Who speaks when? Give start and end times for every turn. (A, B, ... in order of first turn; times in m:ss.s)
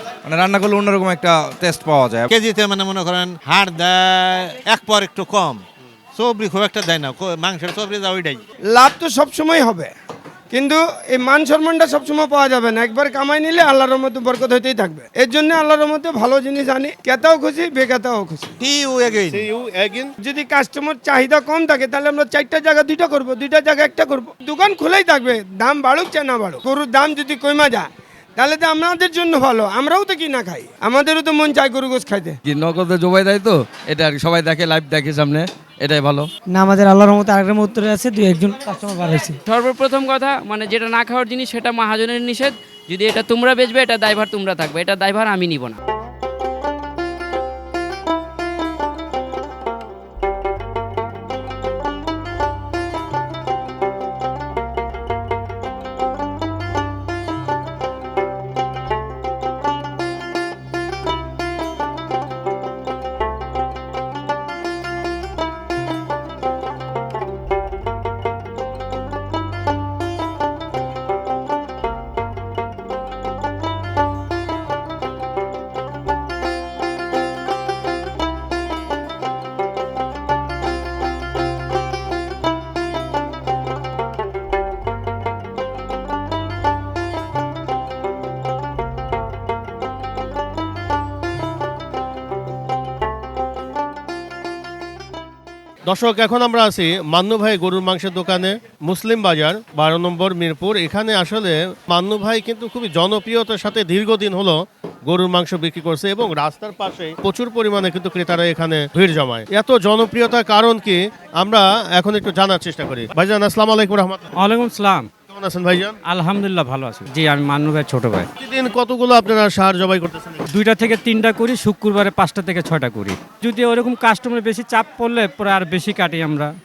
0:00.2-0:02.3 A
0:02.3-0:05.6 B
0:06.2-0:08.4 B
0:08.8-0:09.9 C
0:10.5-0:18.6 C
0:18.6-0:19.5 B
0:19.2-0:20.1 D
0:20.2-0:32.4 C
0:32.4-0:36.3 E
0:36.5-0:39.4 F
0:39.5-0:45.8 G
1:35.9-1:54.3 D
1:54.4-1:55.1 H
1:55.3-1:56.0 D
1:56.1-1:58.3 H
1:58.4-2:00.4 D
2:00.5-2:06.5 H